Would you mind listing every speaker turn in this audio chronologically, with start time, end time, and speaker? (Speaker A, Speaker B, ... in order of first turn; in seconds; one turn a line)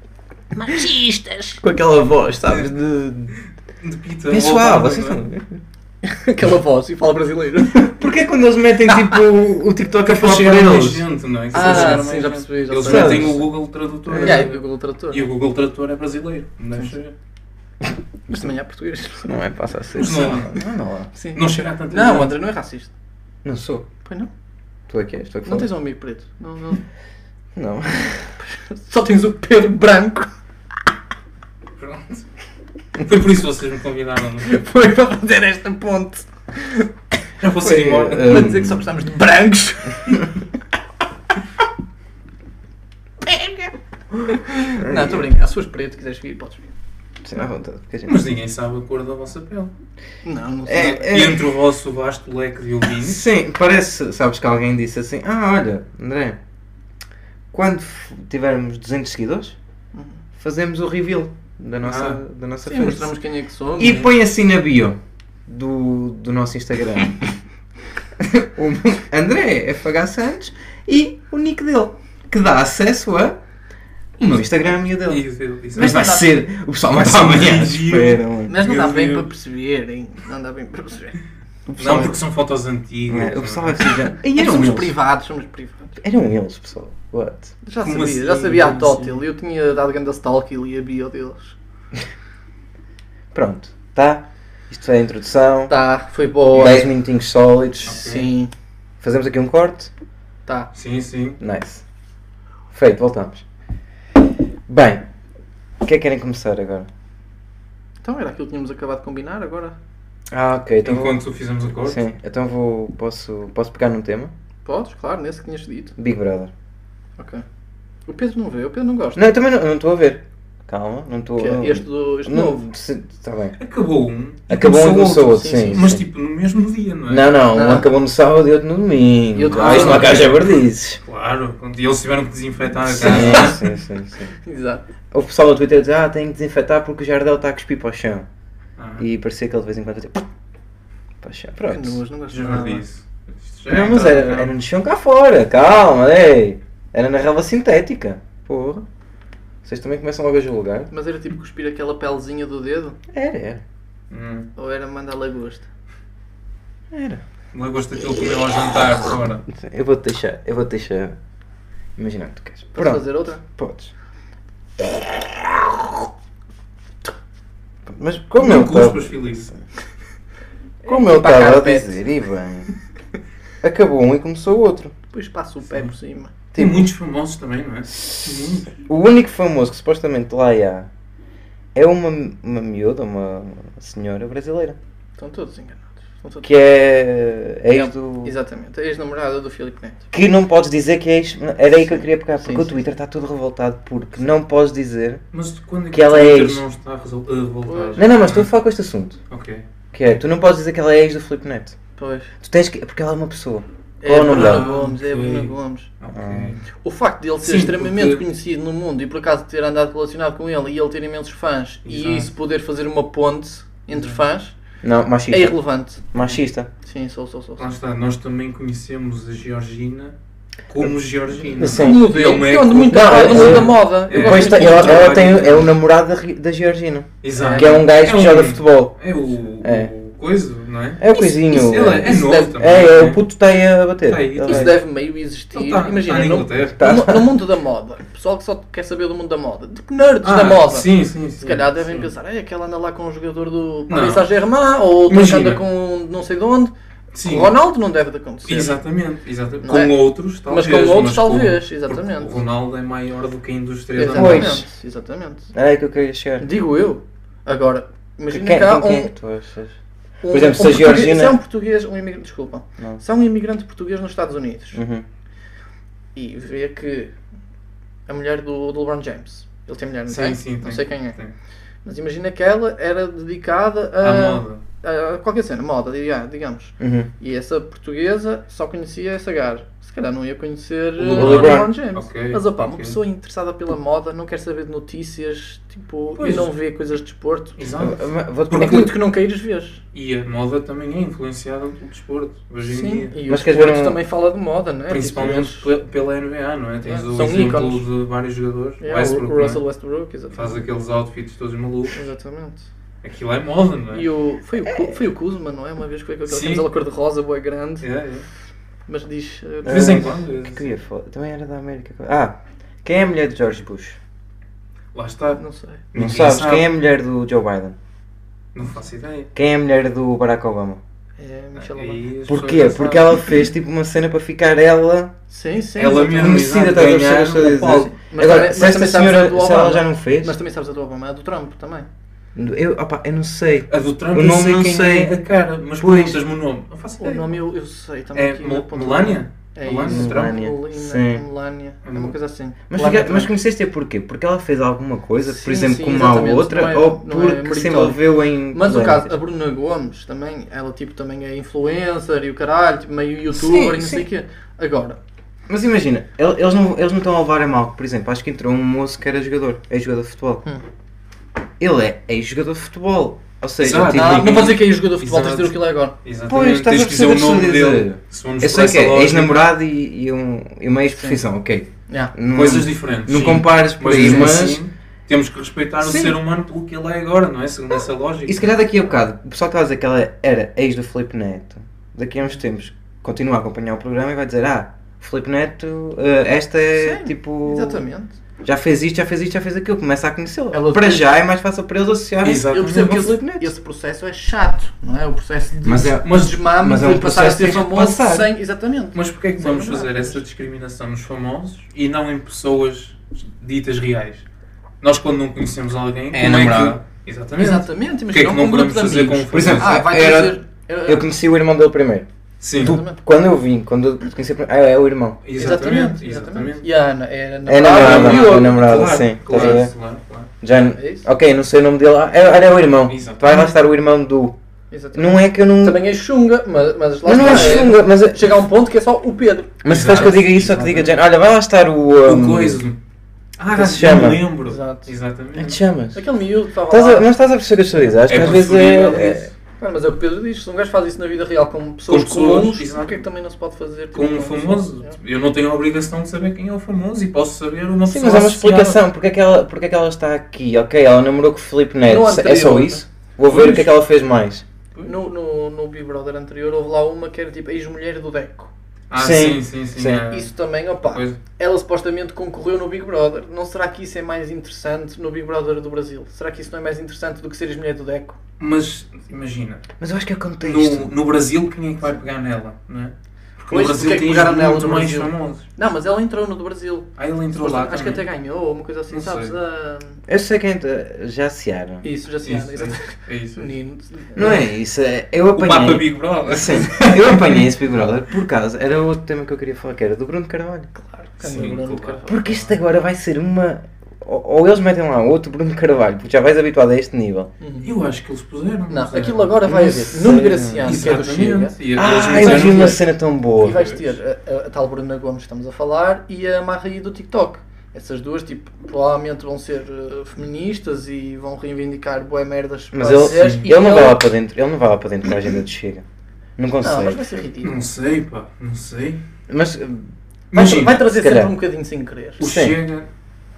Speaker A: 0.5-1.6
Speaker B: 1.6-3.3
Speaker C: 3.8-5.2
Speaker B: 4.3-5.6
Speaker A: 6.0-7.9
Speaker B: 7.8-11.1
Speaker C: 10.0-17.1
Speaker A: 11.5-13.4
Speaker B: 11.6-12.0
Speaker B: 12.8-13.4
Speaker B: 14.1-14.5
Speaker A: 14.2-15.3
Speaker A: 18.3-19.3
Speaker B: 19.2-21.1
Speaker C: 19.9-20.6
Speaker A: 21.1-22.9
Speaker C: 21.3-22.4
Speaker B: 23.4-23.8
Speaker A: 24.0-24.3
Speaker B: 24.9-25.7
Speaker A: 25.4-26.8
Speaker B: 27.5-28.3
Speaker A: 28.4-30.3
Speaker C: 31.8-32.2
Speaker C: 33.0-34.5
Speaker A: 34.4-36.9
Speaker C: 37.4-38.5
Speaker B: 37.6-38.8
Speaker A: 38.0-40.3
Speaker A: 43.3-43.6
Speaker A: 44.7-46.6
Speaker B: 44.8-45.2
Speaker B: 47.2-48.2
Speaker C: 48.1-49.7
Speaker A: 50.2-51.2
Speaker B: 50.7-51.4
Speaker C: 50.7-53.2
Speaker B: 53.0-56.4
Speaker B: 57.5-59.5
Speaker A: 59.9-60.2
Speaker B: 60.4-63.1
Speaker C: 61.8-62.2
Speaker A: 62.6-64.1
Speaker B: 63.8-67.3
Speaker B: 68.2-73.4
Speaker B: 74.2-78.5
Speaker C: 75.0-76.3
Speaker A: 75.8-76.3
Speaker C: 76.9-79.3
Speaker A: 78.5-81.2
Speaker B: 81.7-82.2
Speaker C: 81.8-84.0
Speaker B: 83.1-84.9
Speaker A: 84.3-85.9
Speaker B: 86.0-87.5
Speaker A: 87.6-91.5
Speaker C: 87.8-89.2
Speaker B: 93.3-95.8
Speaker A: 95.7-96.9
Speaker B: 96.5-98.0
Speaker C: 97.8-98.3
Speaker A: 97.9-98.5
Speaker B: 99.0-99.9
Speaker C: 100.7-101.4
Speaker B: 101.4-101.8
Speaker B: 102.7-103.4
Speaker B: 104.7-105.0
Speaker B: 105.8-106.9
Speaker A: 108.0-109.8
Speaker B: 110.3-111.2
Speaker C: 110.8-112.0
Speaker B: 111.8-114.3
Speaker A: 114.6-115.9
Speaker B: 116.0-116.5
Speaker A: 117.2-117.4
Speaker A: 118.0-119.2
Speaker B: 119.2-123.6
Speaker A: 121.4-122.6
Speaker C: 123.6-127.3
Speaker B: 124.5-126.0
Speaker A: 125.3-125.9
Speaker B: 127.1-131.0
Speaker A: 127.5-127.9
Speaker A: 129.3-130.3
Speaker C: 129.5-133.6
Speaker B: 132.9-134.3
Speaker A: 133.1-133.6
Speaker A: 134.4-134.8
Speaker B: 135.1-138.2
Speaker C: 138.8-139.0
Speaker B: 139.0-140.2
Speaker B: 141.2-142.0
Speaker A: 141.7-142.8
Speaker C: 142.3-144.5
Speaker B: 143.7-148.8
Speaker B: 149.6-150.9
Speaker A: 150.9-153.0
Speaker B: 153.1-153.6
Speaker C: 154.1-154.5
Speaker A: 154.6-155.7
Speaker B: 156.9-157.2
Speaker C: 157.5-159.4
Speaker B: 159.5-161.2
Speaker B: 162.0-163.9
Speaker A: 162.7-163.4
Speaker B: 164.8-165.7
Speaker B: 167.9-169.2
Speaker C: 168.4-169.5
Speaker B: 170.8-172.7
Speaker A: 170.8-172.0
Speaker B: 173.6-174.9
Speaker A: 175.1-176.3
Speaker B: 176.5-176.9
Speaker C: 176.5-178.8
Speaker B: 178.0-180.9
Speaker B: 181.7-184.8
Speaker A: 185.2-186.5
Speaker B: 186.4-188.3
Speaker A: 187.7-190.0
Speaker B: 190.1-195.2
Speaker A: 192.4-192.8
Speaker C: 195.3-198.5
Speaker B: 195.9-196.6
Speaker A: 197.6-198.0
Speaker B: 197.9-199.2
Speaker C: 199.3-199.6
Speaker B: 199.9-201.8
Speaker A: 202.0-202.3
Speaker B: 202.4-204.7
Speaker A: 204.0-205.9
Speaker C: 204.2-206.6
Speaker B: 206.1-206.5
Speaker A: 206.8-214.6
Speaker C: 207.4-208.2
Speaker C: 211.8-212.3
Speaker C: 213.9-214.2
Speaker B: 214.8-216.7
Speaker A: 215.3-217.6
Speaker C: 217.6-220.1
Speaker C: 220.7-225.7
Speaker B: 221.5-222.1
Speaker A: 221.6-225.2
Speaker B: 222.9-228.9
Speaker C: 227.2-233.2
Speaker A: 227.3-227.8
Speaker B: 229.6-229.9
Speaker B: 231.0-234.8
Speaker A: 232.1-232.5
Speaker C: 234.1-234.8
Speaker A: 234.4-248.8
Speaker C: 235.5-236.8
Speaker B: 236.8-237.3
Speaker C: 240.2-242.1
Speaker C: 243.9-244.3
Speaker C: 245.1-245.6
Speaker C: 247.1-247.5
Speaker C: 248.4-254.6
Speaker A: 249.6-252.4
Speaker A: 253.9-255.5
Speaker B: 254.1-254.6
Speaker B: 255.5-256.5
Speaker A: 256.4-259.1
Speaker B: 258.3-259.8
Speaker A: 260.2-264.8
Speaker B: 260.3-261.4
Speaker B: 264.7-265.0
Speaker A: 266.1-267.1
Speaker A: 268.1-271.2
Speaker C: 270.1-271.3
Speaker A: 271.8-287.6
Speaker C: 274.0-274.6
Speaker B: 276.8-277.1
Speaker C: 281.0-283.0
Speaker B: 281.1-281.7
Speaker C: 286.2-286.5
Speaker C: 287.6-288.9
Speaker B: 287.8-288.9
Speaker A: 288.5-289.8
Speaker C: 289.9-293.1
Speaker A: 292.7-295.7
Speaker B: 293.3-294.0
Speaker C: 294.9-299.6
Speaker A: 296.8-297.9
Speaker A: 298.8-300.6
Speaker C: 300.3-302.0
Speaker A: 301.9-302.6
Speaker C: 303.0-304.1
Speaker A: 303.9-307.9
Speaker B: 304.6-305.0
Speaker C: 306.3-306.7
Speaker C: 307.8-308.2
Speaker A: 308.9-310.2
Speaker C: 309.6-310.7
Speaker B: 309.6-314.0
Speaker C: 314.9-315.4
Speaker A: 315.4-315.8
Speaker C: 315.9-316.7
Speaker B: 315.9-317.8
Speaker C: 318.5-319.3
Speaker B: 319.3-320.8
Speaker A: 321.2-322.0
Speaker C: 321.6-323.2
Speaker B: 322.3-325.1
Speaker A: 325.3-326.5
Speaker C: 325.8-327.9
Speaker B: 326.0-330.4
Speaker A: 328.0-331.9
Speaker B: 332.3-335.2
Speaker C: 333.7-337.4
Speaker B: 335.8-336.2
Speaker A: 337.0-343.3
Speaker C: 338.1-340.4
Speaker B: 339.9-341.2
Speaker C: 341.8-342.1
Speaker B: 342.7-349.1
Speaker A: 345.2-348.0
Speaker A: 348.5-355.0
Speaker B: 353.3-354.1
Speaker B: 355.5-360.4
Speaker B: 361.6-364.5
Speaker C: 363.6-369.5
Speaker A: 363.9-365.9
Speaker B: 366.3-374.6
Speaker A: 370.9-371.2
Speaker C: 372.3-378.4
Speaker B: 375.8-376.2
Speaker B: 378.3-387.8
Speaker A: 386.7-388.1
Speaker B: 388.4-393.5
Speaker A: 390.5-391.1
Speaker C: 392.2-393.0
Speaker A: 392.5-400.2
Speaker B: 395.6-398.3
Speaker C: 396.0-396.3
Speaker C: 398.9-404.2
Speaker C: 404.8-409.8
Speaker B: 406.1-406.8
Speaker A: 407.4-411.0
Speaker B: 409.3-415.2
Speaker C: 412.4-412.8
Speaker A: 412.6-413.0
Speaker C: 415.2-416.6
Speaker A: 415.4-418.7
Speaker B: 417.4-419.7
Speaker C: 417.6-420.3
Speaker B: 420.4-424.4
Speaker A: 420.7-421.1
Speaker C: 422.9-423.5
Speaker A: 424.7-429.9
Speaker B: 424.9-425.8
Speaker B: 427.0-428.3
Speaker C: 427.2-427.7
Speaker B: 429.6-432.6
Speaker C: 429.6-430.9
Speaker C: 432.0-432.8
Speaker C: 433.4-435.6
Speaker B: 433.5-434.3
Speaker A: 434.4-434.9
Speaker B: 435.3-436.0
Speaker A: 435.9-437.1
Speaker B: 436.7-439.3
Speaker C: 438.0-439.3
Speaker A: 439.6-444.9
Speaker C: 441.9-443.0
Speaker C: 443.9-448.8
Speaker B: 447.9-454.4
Speaker A: 451.9-452.8
Speaker C: 453.2-453.7
Speaker A: 454.8-458.5
Speaker C: 458.9-460.3
Speaker B: 458.9-460.0
Speaker A: 460.1-468.2
Speaker C: 460.8-461.2
Speaker C: 468.4-469.6
Speaker B: 469.8-470.9
Speaker C: 470.4-475.4
Speaker A: 473.5-480.0
Speaker C: 477.0-478.1
Speaker C: 478.9-479.3
Speaker B: 480.1-481.8
Speaker A: 481.8-484.4
Speaker C: 482.2-483.5
Speaker B: 484.1-490.7
Speaker C: 485.3-487.5
Speaker A: 490.7-492.2
Speaker C: 491.2-492.5
Speaker B: 492.1-497.3
Speaker A: 497.4-497.7
Speaker C: 497.6-502.8
Speaker A: 498.7-502.8
Speaker B: 499.5-500.9
Speaker B: 501.7-503.6
Speaker A: 503.4-514.0
Speaker C: 503.4-503.9
Speaker B: 512.7-515.8
Speaker B: 516.4-517.0
Speaker A: 516.6-517.6
Speaker C: 517.4-519.0
Speaker B: 519.3-519.9
Speaker C: 520.3-520.8
Speaker A: 520.3-522.2
Speaker B: 520.8-521.3
Speaker C: 522.2-522.9
Speaker B: 522.2-522.6